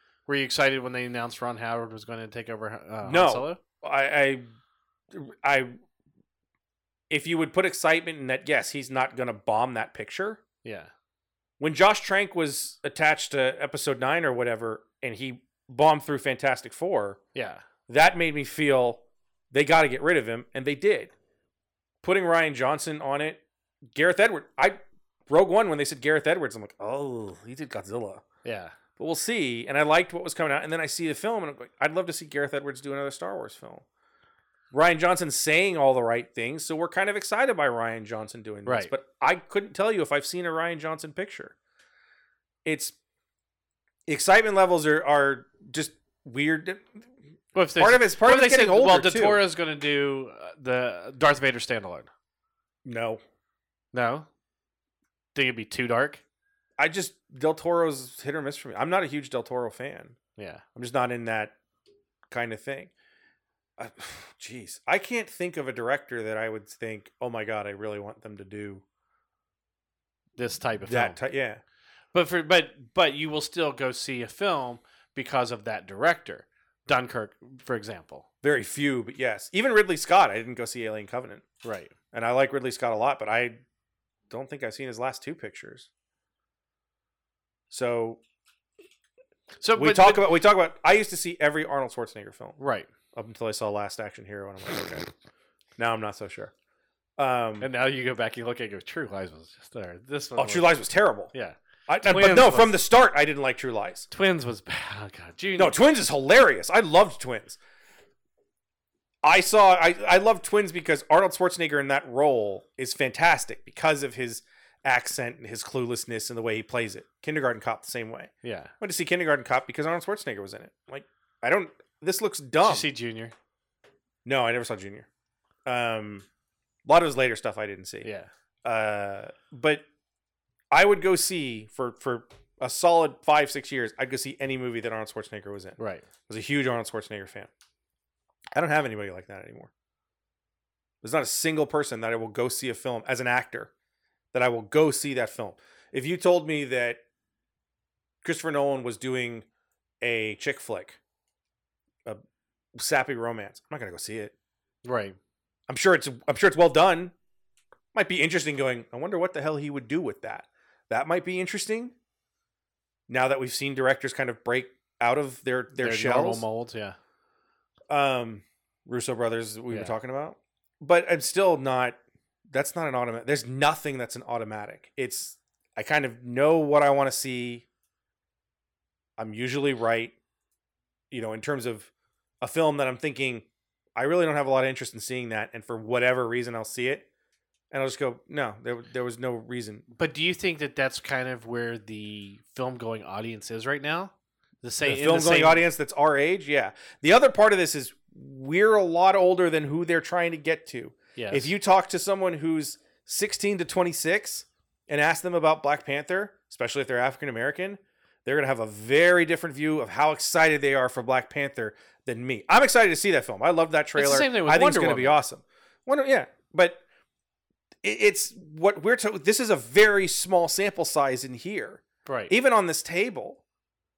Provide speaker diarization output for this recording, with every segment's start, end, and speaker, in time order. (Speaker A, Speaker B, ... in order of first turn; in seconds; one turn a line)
Speaker A: 0.3-3.6
Speaker B: 3.0-4.5
Speaker B: 5.1-5.8
Speaker B: 7.1-10.4
Speaker A: 10.6-10.9
Speaker B: 11.6-17.2
Speaker A: 17.3-17.6
Speaker B: 17.9-21.1
Speaker B: 22.0-23.4
Speaker B: 23.9-28.2
Speaker A: 28.4-28.7
Speaker B: 29.0-33.8
Speaker B: 34.7-41.5
Speaker A: 38.6-38.9
Speaker B: 42.6-43.0
Speaker B: 44.1-47.1
Speaker A: 47.5-52.1
Speaker B: 47.8-49.4
Speaker B: 52.8-53.2
Speaker A: 53.9-54.3
Speaker A: 55.3-56.2
Speaker B: 56.8-60.2
Speaker A: 60.4-60.6
Speaker B: 60.7-61.5
Speaker B: 62.3-62.9
Speaker B: 63.8-68.8
Speaker A: 70.4-71.2
Speaker B: 70.8-71.6
Speaker A: 72.1-78.2
Speaker B: 78.4-81.4
Speaker A: 81.6-81.9
Speaker B: 82.1-83.6
Speaker B: 84.3-85.9
Speaker B: 87.7-88.2
Speaker A: 89.6-90.3
Speaker B: 89.7-92.6
Speaker A: 92.6-92.9
Speaker B: 93.1-95.1
Speaker B: 95.8-96.5
Speaker B: 97.2-97.7
Speaker A: 97.6-100.8
Speaker B: 100.3-101.3
Speaker A: 101.3-102.8
Speaker B: 101.9-104.1
Speaker A: 104.1-105.8
Speaker B: 105.5-107.6
Speaker B: 109.2-122.9
Speaker A: 118.4-118.7
Speaker A: 122.6-123.3
Speaker B: 124.2-125.1
Speaker B: 125.7-126.2
Speaker B: 126.8-128.1
Speaker A: 128.0-128.3
Speaker B: 128.6-129.8
Speaker B: 130.7-137.5
Speaker A: 135.8-136.1
Speaker B: 138.5-139.7
Speaker B: 141.0-143.7
Speaker B: 144.3-147.0
Speaker B: 148.2-149.4
Speaker B: 150.0-151.0
Speaker B: 152.7-154.3
Speaker A: 154.8-155.2
Speaker B: 155.7-157.1
Speaker B: 157.9-161.9
Speaker B: 163.1-166.4
Speaker A: 165.8-167.0
Speaker B: 167.9-172.0
Speaker A: 169.7-169.9
Speaker B: 172.5-177.6
Speaker B: 179.2-180.1
Speaker B: 181.1-181.9
Speaker B: 182.4-187.1
Speaker B: 187.7-189.8
Speaker A: 190.0-195.7
Speaker B: 194.8-216.8
Speaker A: 201.2-201.5
Speaker A: 213.9-215.2
Speaker B: 217.8-223.4
Speaker A: 222.1-222.3